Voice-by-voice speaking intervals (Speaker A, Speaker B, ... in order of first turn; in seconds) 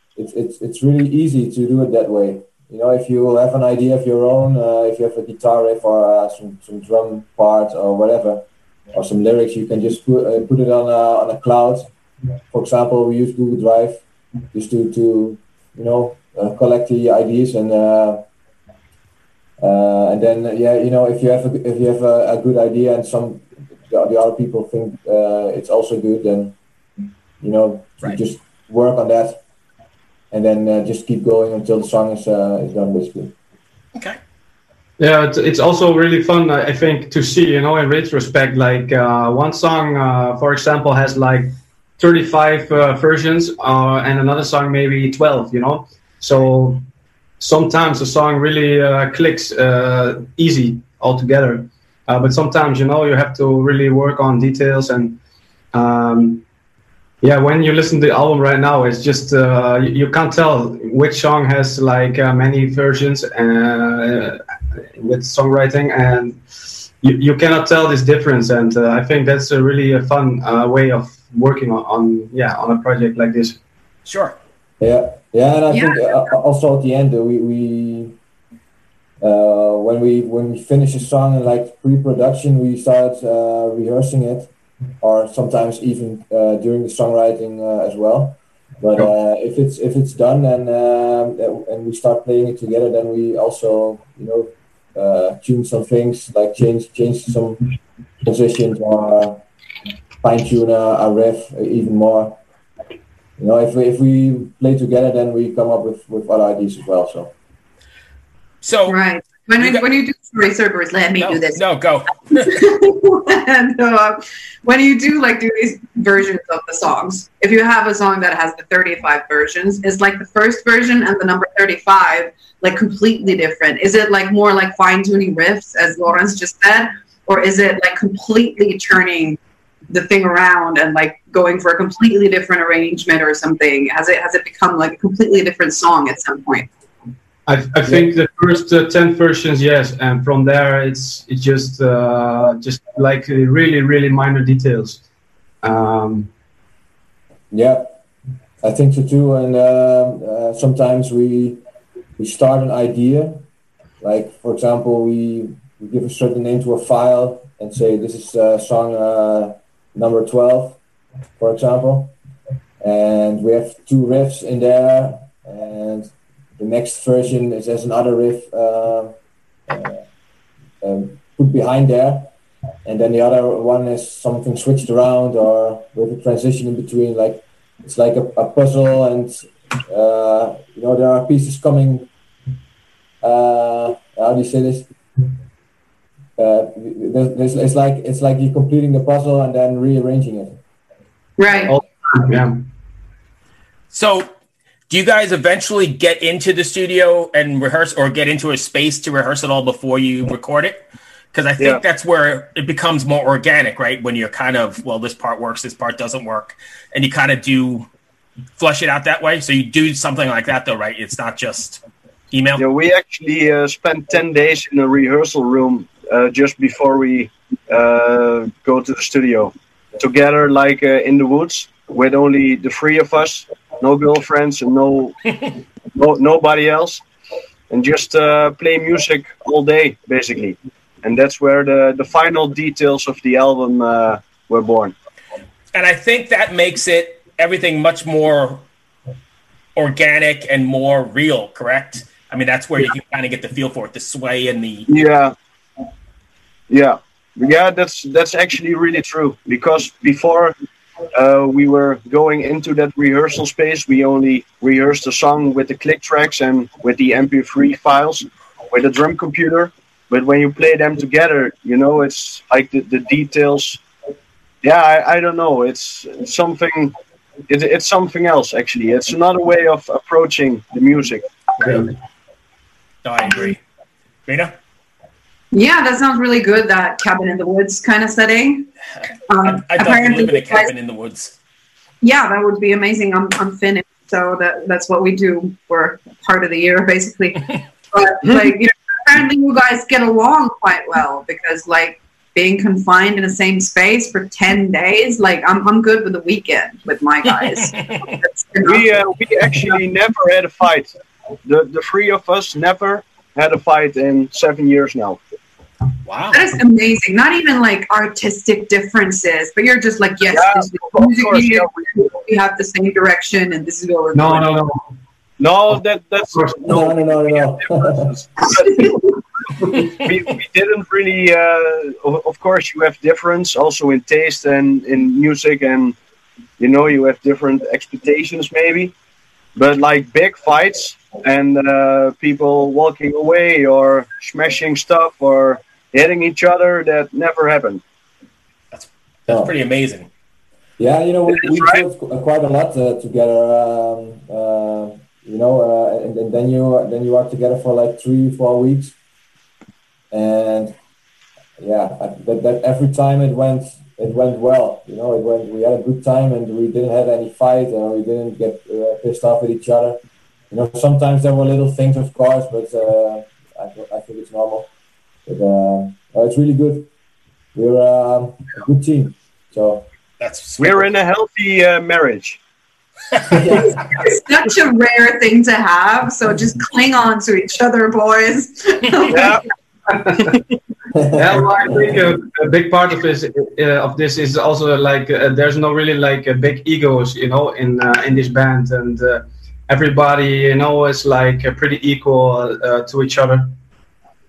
Speaker A: 0.2-8.4, 8.9-11.9, 12.5-14.0, 14.5-18.2, 19.6-26.6, 27.4-29.4, 30.3-33.3, 74.8-78.1, 79.2-97.7, 98.2-99.4, 100.2-102.4, 103.4-107.3, 137.8-138.1, 147.5-148.0, 148.6-151.6, 152.2-153.4, 154.0-160.8, 161.4-162.2, 162.8-169.1, 169.7-170.0, 170.8-172.3, 172.8-182.1, 183.2-184.9, 186.4-190.6, 316.7-318.1, 340.8-348.9, 350.1-350.8, 351.6-360.0, 360.5-364.7, 365.3-366.9, 367.6-369.9, 373.3-373.8, 380.9-381.4
Speaker B: 35.0-46.9, 47.4-55.2, 55.7-56.4, 57.2-64.4, 65.0-73.6, 137.5-145.0, 145.6-146.3, 191.7-192.7, 271.6-271.9, 314.1-314.9, 381.1-393.5
Speaker C: 74.1-74.4, 108.6-109.0, 111.2-112.6, 193.9-194.3, 194.9-200.8, 201.3-207.9, 208.6-212.6, 235.7-238.7, 239.8-244.9, 271.6-271.9, 273.0-273.6, 274.3-274.5, 279.4-281.4, 306.1-306.4, 338.7-340.1, 370.2-370.9
Speaker D: 75.7-76.0, 108.9-111.6, 112.3-129.4, 129.9-136.7, 191.4-191.7, 275.5-278.7, 279.3-280.7, 282.0-298.9, 306.3-314.6, 373.6-379.4
Speaker E: 212.6-225.2, 225.9-227.0, 227.7-234.9, 244.9-245.3, 246.7-250.6, 251.1-263.8, 264.6-266.9, 267.5-271.3, 288.2-288.5, 298.6-300.9, 301.4-305.2, 310.3-311.9, 315.4-319.0, 319.6-326.0, 326.6-328.9, 329.6-337.8, 341.5-341.8, 370.6-372.4, 379.1-379.4